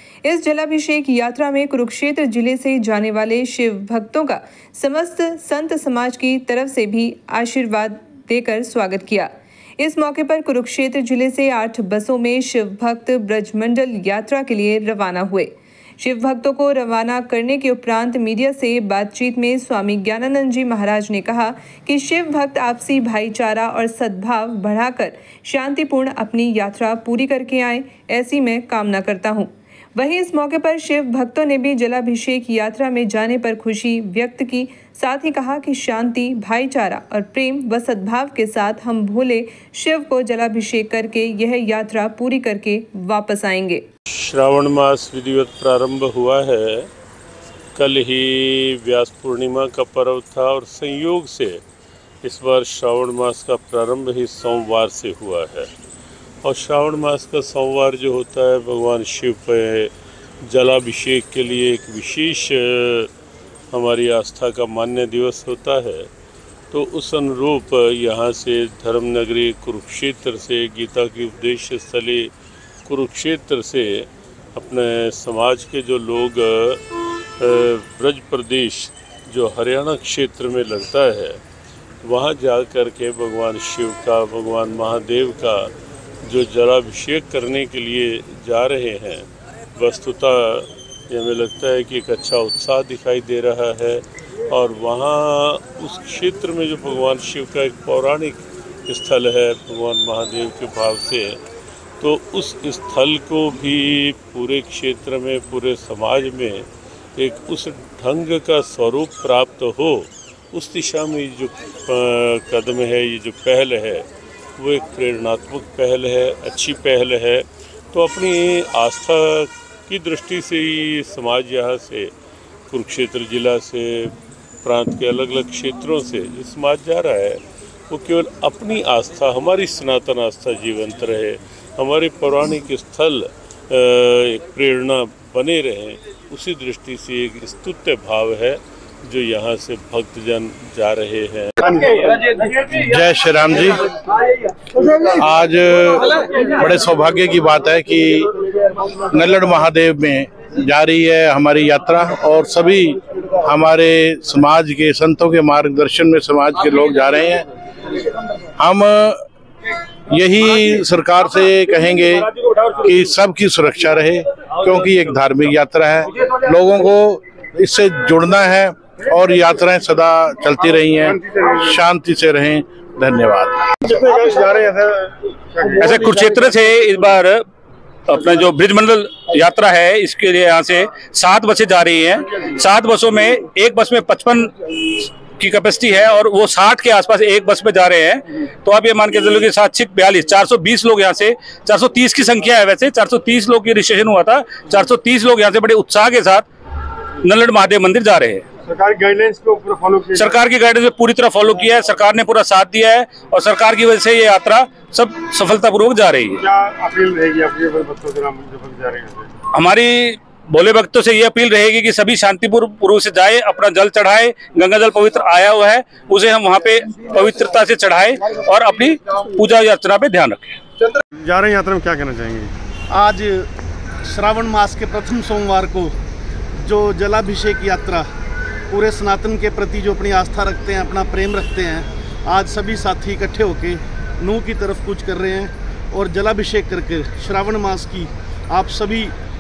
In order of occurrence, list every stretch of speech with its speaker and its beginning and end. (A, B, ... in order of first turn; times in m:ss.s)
0:00.2-0:43.8 A
0:44.1-0:46.9 B
0:47.8-0:51.6 B
0:52.2-0:55.7 B
0:56.4-0:59.9 B
1:00.4-1:03.1 B
1:03.7-1:06.1 B
1:06.7-1:12.3 B
1:12.9-1:16.8 B
1:17.4-1:21.4 B
1:22.0-1:25.7 B
1:26.2-1:41.4 B
1:42.0-2:02.1 B
2:02.7-2:22.0 B
2:22.7-2:23.9 C
2:24.8-2:28.3 C
2:29.0-2:37.5 C
2:38.6-2:39.2 C
2:40.1-2:53.6 C
2:53.8-2:56.4 D
2:55.8-2:57.4 E
2:58.1-3:16.4 E
3:17.2-3:18.4 E
3:18.6-3:20.4 D
3:20.2-3:26.4 E
3:26.4-3:29.3 D
3:29.5-3:40.6 E
3:41.2-3:42.5 D
3:42.9-3:43.5 F
3:44.0-3:45.9 F
3:46.6-3:48.1 F
3:48.7-3:59.1 F